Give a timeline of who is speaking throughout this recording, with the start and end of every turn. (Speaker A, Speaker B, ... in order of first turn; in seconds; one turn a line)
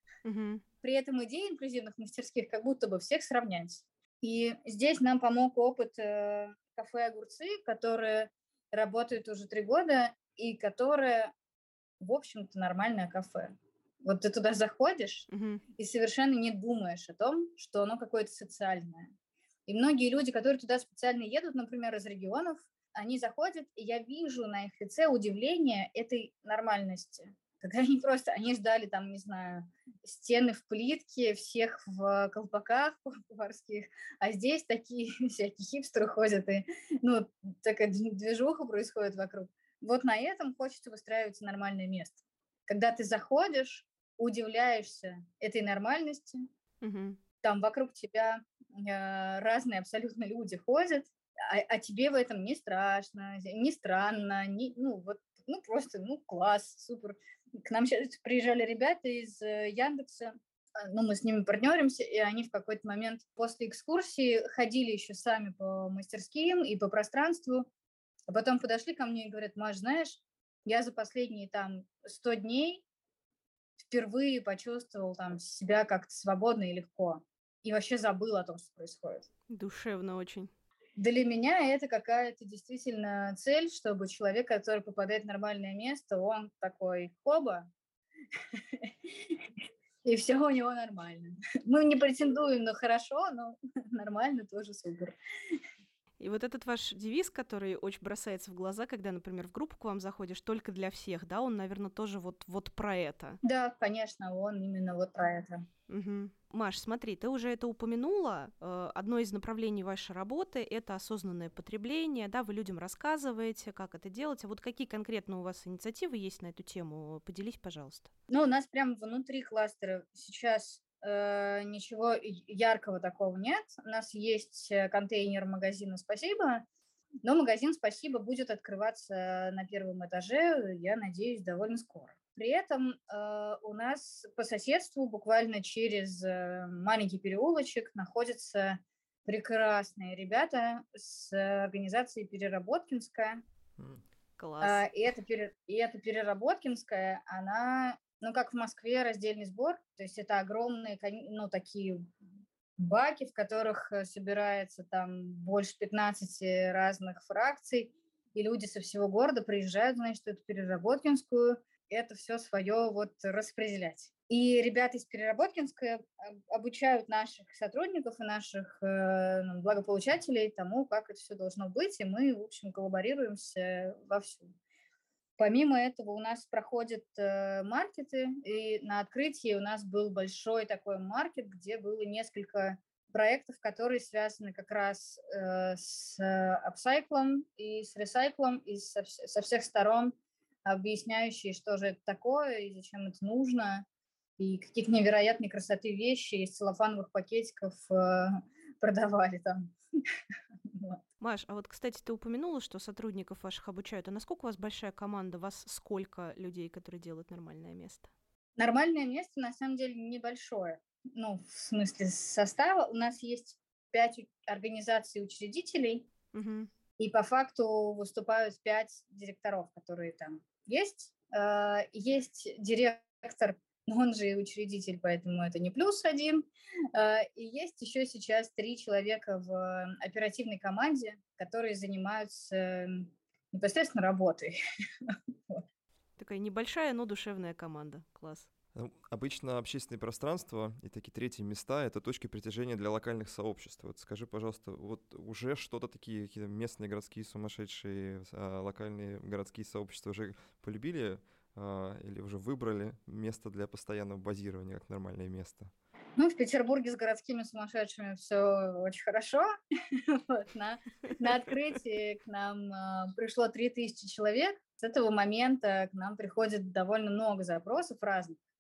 Speaker A: 0.2-0.6
Speaker B: 0.8-11.3
Speaker B: 12.0-19.1
Speaker A: 15.3-15.6
Speaker B: 19.7-46.5
Speaker A: 46.8-47.2
Speaker B: 47.4-67.7
Speaker B: 68.3-72.8
Speaker B: 73.8-79.3
Speaker A: 79.5-80.5
Speaker B: 81.0-87.7
Speaker B: 88.5-89.4
Speaker B: 90.0-95.2
Speaker A: 96.2-103.4
Speaker B: 103.4-105.7
Speaker A: 105.9-118.1
Speaker B: 118.3-126.7
Speaker B: 127.2-143.4
Speaker A: 144.4-144.8
Speaker B: 144.6-152.1
Speaker B: 152.8-174.5
Speaker B: 175.4-193.9
Speaker B: 194.4-199.7
Speaker B: 200.7-201.0
Speaker A: 201.2-208.1
Speaker B: 208.6-216.1
Speaker A: 216.3-216.7
Speaker B: 217.0-235.6
Speaker A: 236.2-238.5
Speaker C: 238.8-255.7
Speaker B: 256.2-268.4